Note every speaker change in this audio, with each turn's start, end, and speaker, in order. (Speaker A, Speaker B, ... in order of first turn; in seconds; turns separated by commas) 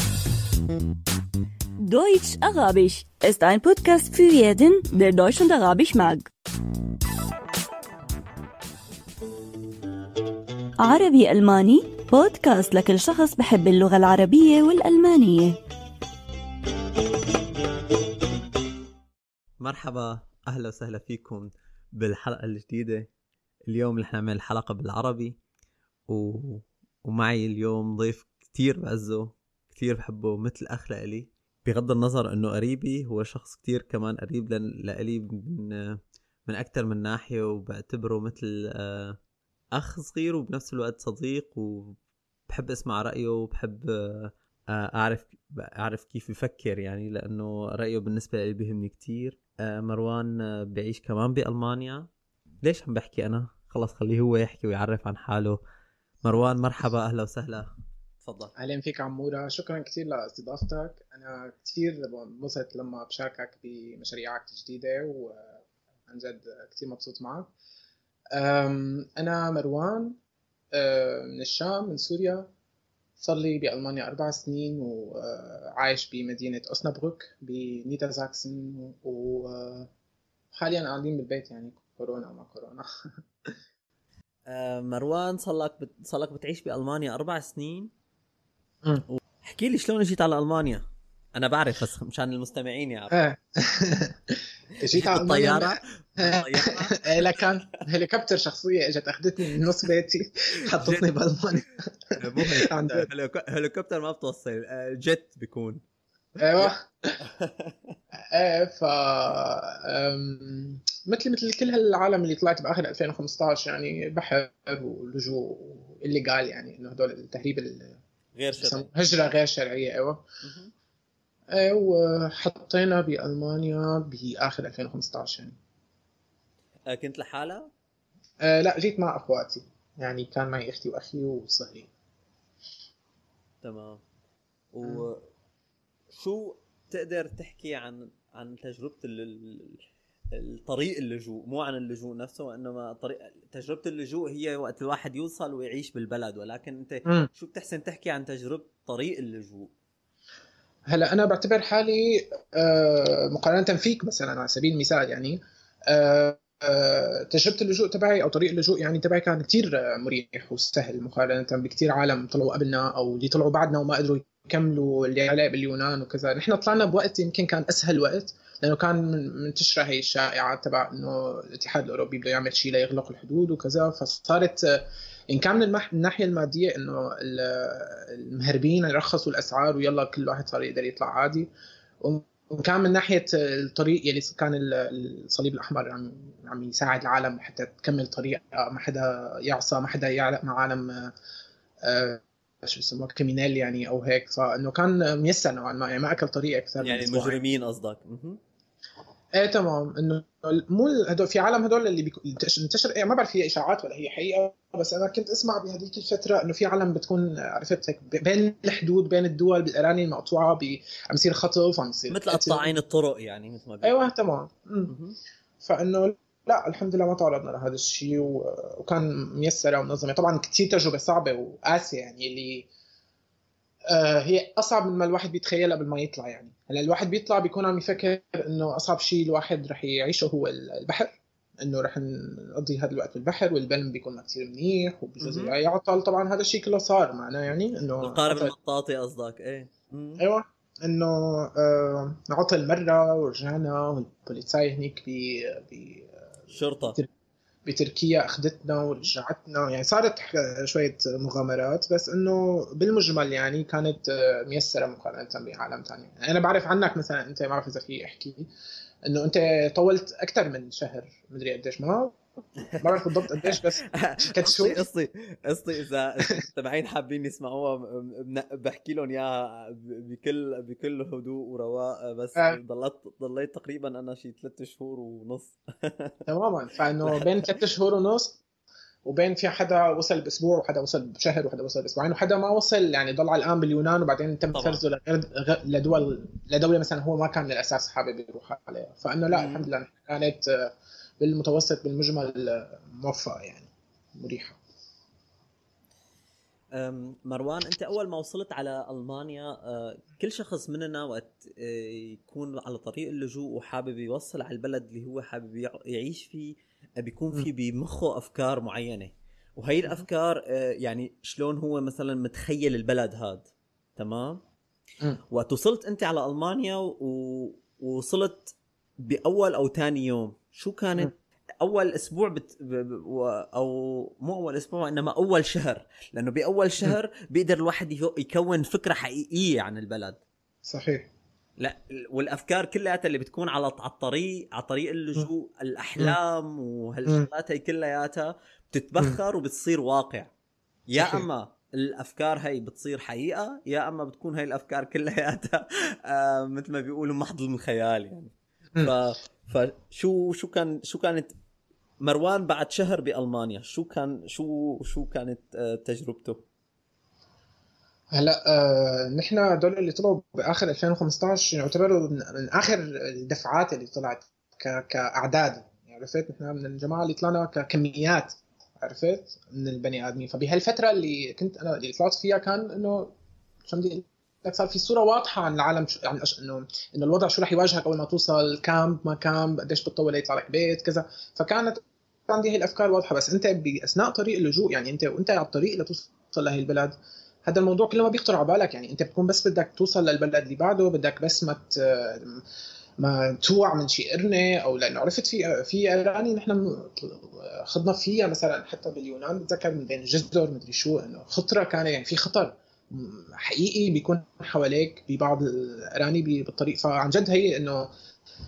Speaker A: 1.8-6.3, Speaker A: 10.8-15.6, Speaker B: 19.6-23.1, Speaker B: 23.7-25.4, Speaker B: 26.1-39.2, Speaker B: 39.7-42.0, Speaker B: 42.5-52.1, Speaker B: 52.6-55.6, Speaker B: 56.2-57.7, Speaker B: 58.2-58.5, Speaker C: 58.6-67.5, Speaker C: 68.3-70.2, Speaker C: 70.7-72.5, Speaker C: 73.2-79.9, Speaker C: 80.5-82.9, Speaker B: 84.5-87.9, Speaker B: 89.1-93.2, Speaker C: 93.1-103.1, Speaker B: 94.9-97.5, Speaker B: 100.7-101.0, Speaker B: 102.2-105.8, Speaker C: 106.4-107.2, Speaker B: 106.5-108.0, Speaker C: 108.3-118.0, Speaker B: 118.3-118.9, Speaker C: 118.6-120.2, Speaker B: 120.4-120.7, Speaker C: 121.5-125.6, Speaker B: 126.9-127.7, Speaker C: 128.4-131.9, Speaker B: 133.6-134.0, Speaker B: 134.7-135.2, Speaker B: 136.1-139.8, Speaker B: 140.3-149.7, Speaker C: 150.9-191.1, Speaker C: 191.8-197.4, Speaker B: 196.8-198.4, Speaker C: 199.3-212.7, Speaker B: 212.1-214.1, Speaker C: 213.8-214.9, Speaker B: 214.9-215.2, Speaker C: 215.6-222.7, Speaker C: 223.9-238.5, Speaker B: 235.2-235.6, Speaker B: 238.0-240.2, Speaker C: 240.2-246.2, Speaker B: 246.5-247.0, Speaker C: 247.7-258.5, Speaker C: 259.1-262.2, Speaker B: 262.7-276.2, Speaker C: 262.8-264.8, Speaker C: 276.3-278.4, Speaker B: 277.0-277.5, Speaker C: 279.1-294.6, Speaker B: 284.5-284.8, Speaker B: 289.3-289.7, Speaker B: 296.7-314.4, Speaker B: 315.3-330.2, Speaker C: 330.6-331.1, Speaker B: 331.6-340.3, Speaker B: 340.9-351.3, Speaker C: 341.0-341.3, Speaker B: 352.0-356.4, Speaker C: 358.1-373.1, Speaker C: 373.6-392.4, Speaker C: 393.0-407.9